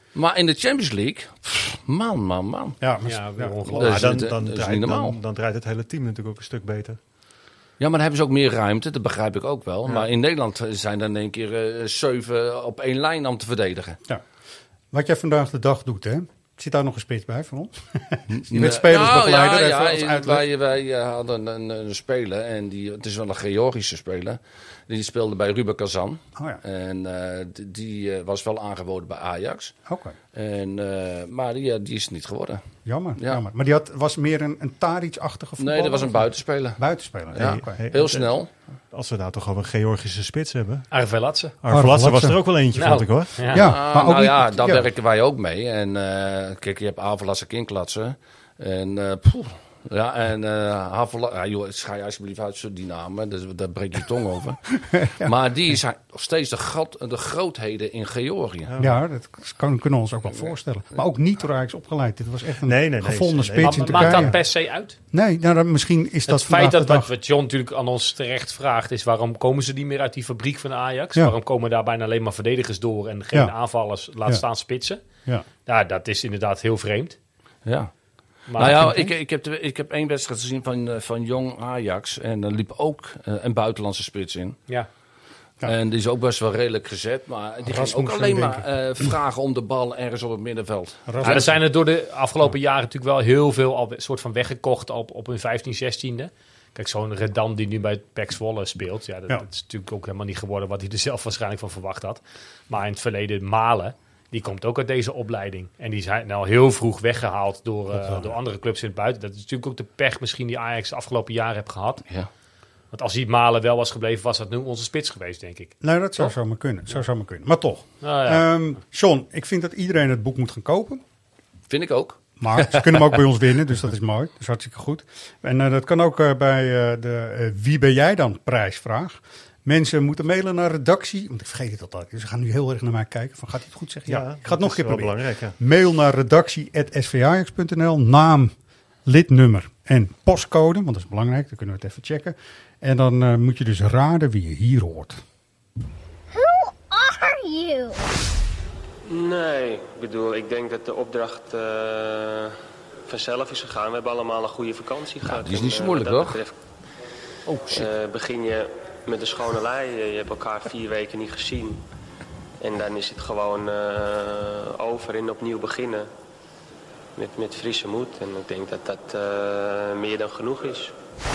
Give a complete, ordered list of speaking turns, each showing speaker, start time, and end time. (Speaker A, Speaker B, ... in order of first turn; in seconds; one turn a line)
Speaker A: 0.1-2.8
Speaker B: 2.8-4.0
Speaker C: 3.0-4.1
Speaker D: 3.8-7.0
Speaker A: 3.8-5.2
Speaker A: 7.8-14.0
Speaker B: 14.9-20.4
Speaker A: 18.3-29.7
Speaker B: 26.4-26.6
Speaker B: 29.9-30.1
Speaker A: 30.3-32.6
Speaker B: 32.9-37.8
Speaker A: 35.6-36.8
Speaker A: 37.3-38.5
Speaker D: 37.4-40.9
Speaker C: 40.9-41.5
Speaker D: 41.6-43.5
Speaker B: 41.7-42.4
Speaker C: 42.7-43.7
Speaker B: 43.5-44.9
Speaker A: 43.5-58.7
Speaker B: 54.8-55.3
Speaker D: 58.7-59.0
Speaker B: 58.8-64.3
Speaker D: 62.6-64.3
Speaker C: 63.6-65.0
Speaker B: 65.1-67.1
Speaker C: 66.2-75.0
Speaker C: 75.7-77.2
Speaker A: 77.7-77.9
Speaker C: 78.5-78.9
Speaker A: 78.6-84.6
Speaker B: 78.6-79.1
Speaker A: 85.6-91.4
Speaker B: 87.6-89.1
Speaker B: 91.1-91.5
Speaker C: 91.2-112.0
Speaker B: 107.9-108.3
Speaker C: 112.9-116.3
Speaker B: 115.8-121.0
Speaker C: 118.0-118.5
Speaker A: 121.7-123.2
Speaker B: 122.4-138.5
Speaker D: 134.1-135.6
Speaker B: 139.1-145.2
Speaker E: 149.1-156.6
Speaker A: 155.2-156.4
Speaker A: 157.5-157.9
Speaker E: 157.7-161.8
Speaker E: 162.6-166.1
Speaker E: 167.2-170.9